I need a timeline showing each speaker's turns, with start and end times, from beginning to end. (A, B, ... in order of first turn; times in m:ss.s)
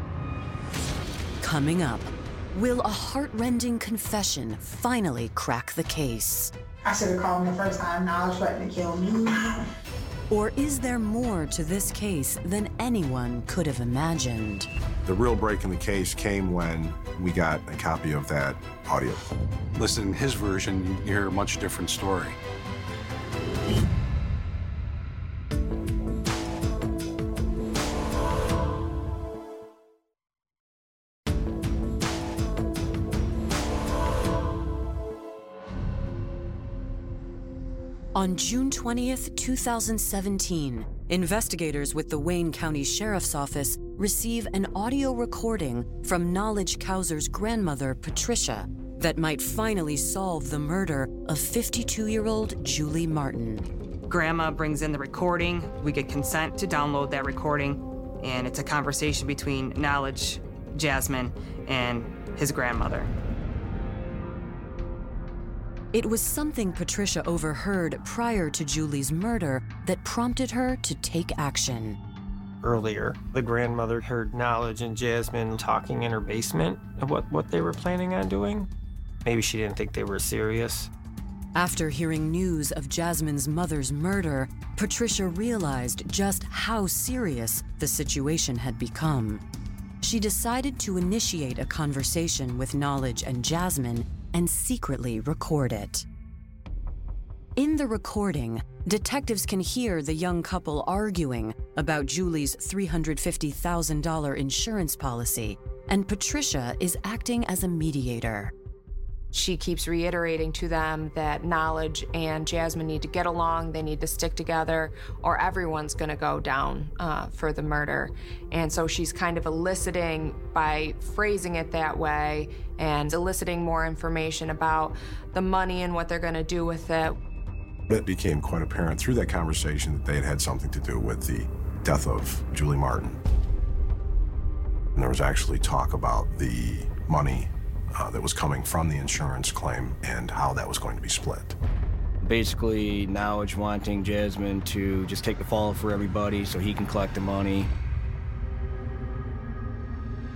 0:01.4-0:06.5 A
0:06.8-0:09.6 B
0:10.3-0:14.7 A
0:15.0-0:19.2 C
0:19.7-0:22.4 D
0:38.1-0:53.7 A
0:54.1-1:03.1 E
1:05.9-1:12.0 A
1:12.6-1:18.7 F
1:19.2-1:20.9 F
1:21.5-1:29.4 A
1:30.0-1:36.0 A
1:37.6-1:48.5 A
1:49.3-2:07.2 G
2:07.9-2:13.2 C
2:14.9-2:21.6 C
2:22.2-2:27.7 H